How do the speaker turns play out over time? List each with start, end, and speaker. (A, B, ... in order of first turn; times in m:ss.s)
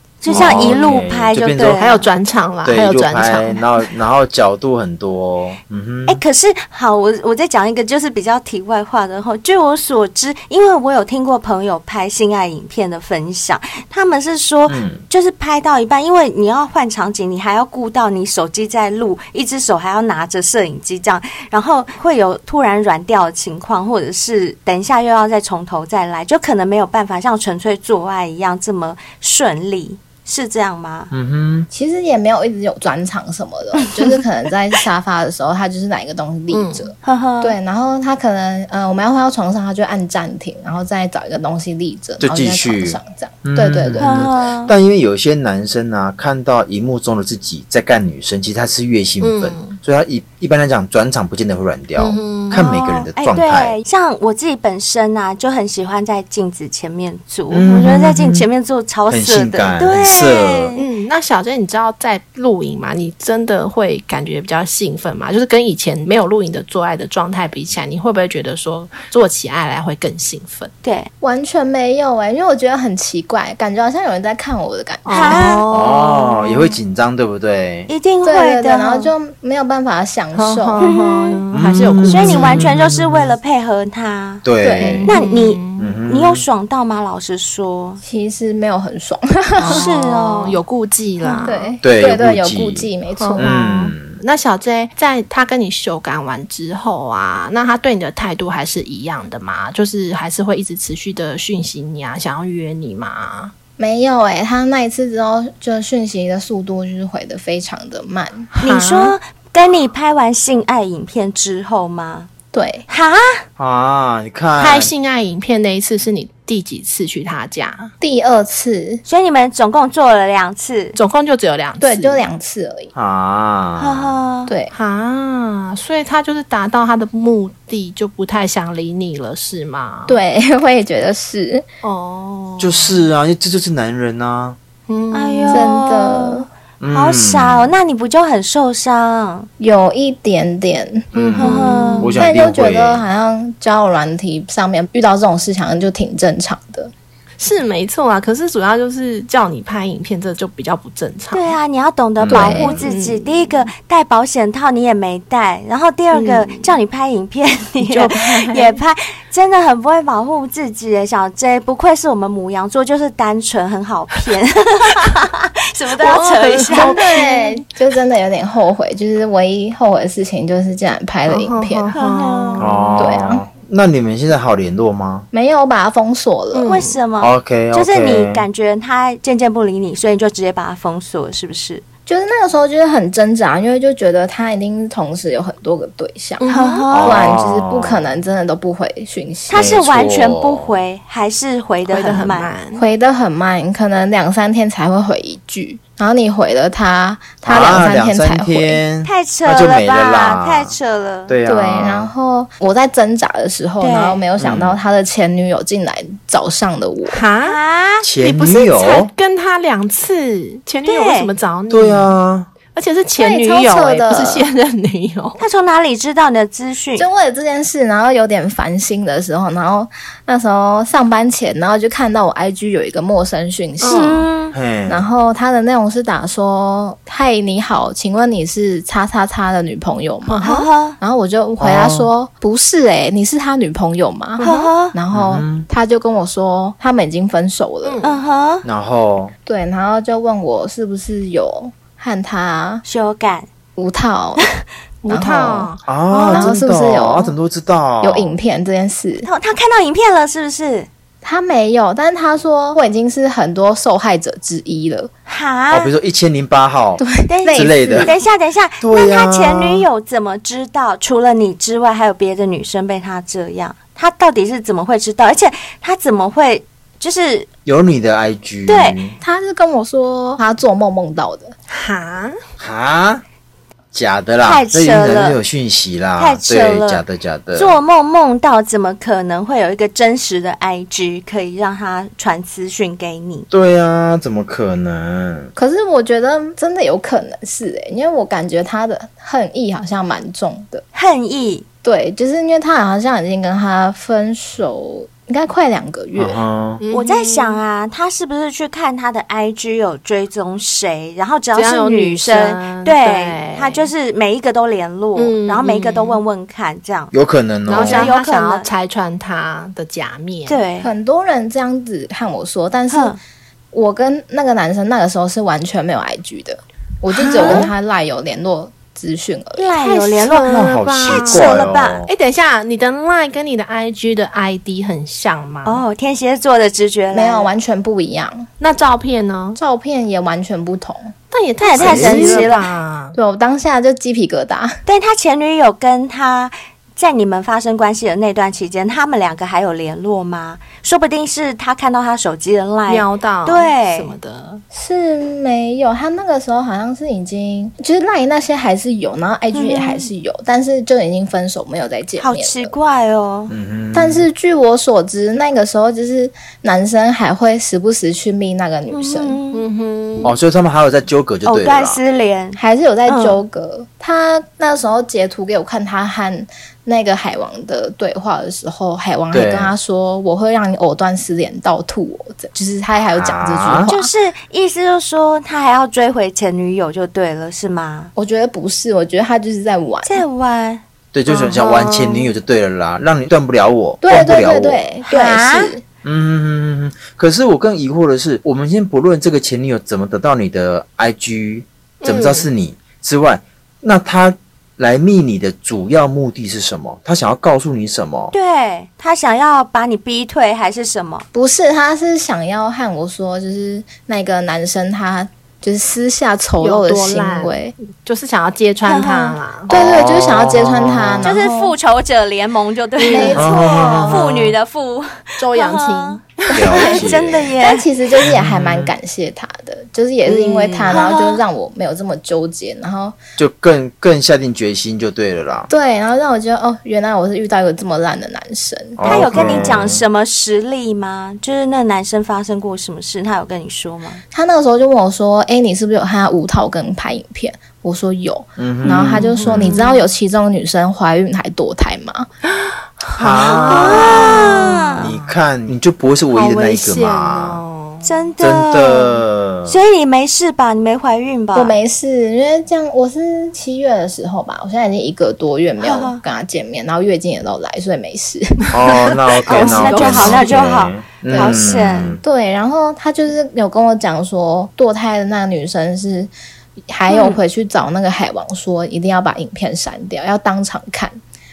0:00.2-0:02.0 A
0:00.3-0:00.8 B
0:00.3-0:01.8 C
0:01.6-0:03.8 B
0:02.6-0:06.2 C
0:06.1-0:31.1 A
0:14.7-0:15.0 C
0:31.1-0:31.7 C
0:31.7-0:44.3 D
0:36.5-0:36.9 B
0:37.0-0:37.6 A
0:42.2-0:53.8 C
0:44.0-0:44.7 A
0:49.2-0:49.8 B
0:52.0-0:52.7 B
0:52.5-1:00.8 A
0:57.5-0:58.5 C
0:59.1-1:00.7 C
1:00.8-1:10.7 B
1:10.8-1:11.1 A
1:11.2-1:15.4 D
1:15.0-1:16.6 B
1:15.1-1:15.6 A
1:15.7-1:17.9 C
1:17.9-1:19.1 A
1:18.2-1:20.8 D
1:20.3-1:22.7 B
1:20.8-1:21.4 A
1:21.5-1:23.4 C
1:22.0-1:24.4 A
1:24.4-1:25.1 C
1:24.6-1:25.1 D
1:24.8-1:25.9 B
1:25.0-1:28.0 A
1:25.8-1:26.4 C
1:28.0-1:29.9 D
1:29.6-1:31.7 B
1:29.6-1:30.6 A
1:31.2-1:33.5 D
1:31.8-1:34.2 C
1:33.2-1:43.5 B
1:43.8-1:48.5 D
1:48.5-1:49.1 B
1:48.6-1:52.3 A
1:52.5-1:52.8 D
1:52.9-1:53.4 A
1:53.6-1:54.9 C
1:54.6-1:57.9 B
1:58.0-1:59.0 D
1:59.0-2:01.0 A
2:00.9-2:02.2 B
2:01.8-2:02.9 D
2:02.9-2:04.1 C
2:03.8-2:04.5 A
2:04.5-2:04.7 D
2:04.7-2:10.2 B
2:10.1-2:11.6 D
2:11.8-2:13.0 B
2:12.6-2:14.6 C
2:14.9-2:15.7 B
2:15.1-2:19.5 A
2:15.5-2:16.5 D
2:16.8-2:17.7 C
2:19.6-2:21.0 D
2:21.1-2:23.0 C
2:21.1-2:22.3 B
2:21.4-2:22.1 A
2:22.2-2:26.9 D
2:27.4-2:31.5 B
2:31.3-2:47.5 A
2:32.2-2:32.8 C
2:32.3-2:32.8 D
2:32.6-2:33.6 B
2:36.1-2:36.7 B
2:37.8-2:38.8 B
2:46.0-2:47.4 B
2:46.7-2:51.9 D
2:51.3-2:53.1 B
2:51.9-2:52.9 A
2:52.6-2:55.3 C
2:53.0-2:53.4 D
2:55.3-2:56.7 D
2:56.5-2:57.0 B
2:56.6-3:01.8 A
2:57.2-2:58.4 C
3:02.0-3:06.4 D
3:06.4-3:06.8 B
3:06.4-3:07.2 A
3:06.9-3:08.2 C
3:07.0-3:09.7 D
3:09.5-3:12.5 A
3:09.5-3:10.7 C
3:11.9-3:12.8 B
3:12.7-3:18.8 D
3:17.4-3:20.7 C
3:19.0-3:21.3 A
3:21.3-3:22.1 C
3:21.4-3:27.2 D
3:23.8-3:24.2 A
3:24.4-3:24.8 C
3:27.0-3:27.6 B
3:27.4-3:28.0 A
3:28.0-3:29.1 C
3:28.2-3:32.1 B
3:30.8-3:31.3 A
3:31.7-3:32.5 C
3:32.7-3:35.4 B
3:33.2-3:34.4 D
3:35.4-3:37.1 A
3:37.0-3:44.2 D
3:43.8-3:44.2 B
3:43.9-3:44.5 A
3:44.5-3:45.1 C
3:44.9-3:54.4 D
3:50.3-3:50.6 B
3:50.4-3:51.0 A
3:51.6-3:52.1 C
3:54.4-3:54.7 B
3:54.4-3:55.0 A
3:54.9-3:58.0 D
3:55.1-3:55.7 C
3:57.8-3:58.2 B
3:58.0-3:58.6 A
3:58.6-3:59.3 C
3:59.4-4:02.8 D
4:02.8-4:03.5 A
4:03.8-4:04.4 D
4:05.0-4:06.5 B
4:05.1-4:05.7 D
4:05.8-4:08.3 C
4:06.3-4:07.4 D
4:08.0-4:09.3 D
4:09.2-4:10.9 A
4:11.2-4:15.1 D
4:15.3-4:15.9 A
4:15.7-4:18.1 C
4:17.0-4:18.1 D
4:17.3-4:27.5 A
4:18.8-4:19.8 C
4:27.6-4:29.2 C
4:28.7-4:29.0 A
4:29.2-4:31.5 D
4:31.7-4:32.4 B
4:32.6-4:33.2 C
4:33.9-4:37.8 C
4:34.4-4:35.4 A
4:36.2-4:37.0 A
4:37.5-4:43.5 A
4:43.5-4:45.5 C
4:45.5-4:50.8 D
4:50.9-4:51.6 A
4:51.8-4:56.4 D
4:56.2-4:56.8 C
4:56.8-4:57.6 B
4:56.9-5:07.1 A
5:01.5-5:03.9 B
5:05.1-5:06.2 B
5:07.1-5:08.1 C
5:07.6-5:10.6 B
5:07.7-5:08.7 A
5:10.4-5:10.9 A
5:10.8-5:13.2 D
5:12.9-5:13.2 A
5:13.7-5:19.7 D
5:17.1-5:17.7 B
5:17.3-5:17.7 A
5:19.6-5:22.0 A
5:19.8-5:25.8 B
5:20.4-5:22.1 C
5:25.6-5:27.5 A
5:27.1-5:28.5 D
5:28.6-5:29.6 B
5:29.6-5:31.1 D
5:31.3-5:33.2 B
5:31.6-5:32.6 A
5:31.8-5:32.5 C
5:33.1-5:34.8 D
5:34.8-5:44.1 A
5:42.9-5:44.6 B
5:44.7-5:52.7 D
5:49.5-5:50.1 A
5:52.2-5:53.5 A
5:53.5-5:54.3 C
5:53.9-5:59.4 D
5:58.9-5:59.6 A
5:59.5-6:00.3 B
6:00.2-6:02.0 C
6:01.4-6:03.4 A
6:02.6-6:14.1 D
6:09.3-6:09.7 C
6:13.2-6:13.9 C
6:13.8-6:18.1 A
6:18.2-6:20.2 D
6:20.0-6:20.8 A
6:21.1-6:24.8 C
6:21.3-6:22.3 B
6:24.0-6:25.8 D
6:25.1-6:25.7 A
6:26.0-6:38.3 C
6:32.0-6:32.5 B
6:38.3-6:41.2 A
6:41.3-6:47.7 D
6:46.6-6:49.7 B
6:48.8-6:49.4 A
6:49.7-6:51.3 C
6:49.7-6:51.7 D
6:51.2-6:57.9 A
6:53.0-6:53.5 B
6:53.1-6:54.2 D
6:53.3-6:54.5 C
6:55.4-6:57.0 B
6:56.5-6:57.5 C
6:56.8-6:57.1 D
6:57.6-7:03.2 D
6:58.2-6:58.9 C
7:00.2-7:01.2 B
7:00.9-7:01.4 A
7:03.4-7:05.7 C
7:05.7-7:09.7 D
7:09.0-7:10.0 C
7:09.0-7:14.2 A
7:14.3-7:22.3 D
7:18.6-7:19.8 C
7:18.8-7:20.0 B
7:23.0-7:25.3 B
7:23.1-7:27.6 C
7:23.5-7:25.1 A
7:26.3-7:28.2 B
7:28.0-7:31.8 A
7:28.4-7:29.8 C
7:31.5-7:38.7 D
7:35.8-7:36.2 A
7:38.7-7:42.2 C
7:39.5-7:40.5 B
7:39.5-7:42.2 A
7:41.4-7:41.7 D
7:42.2-7:46.3 D
7:46.9-7:51.2 D
7:47.1-7:47.4 A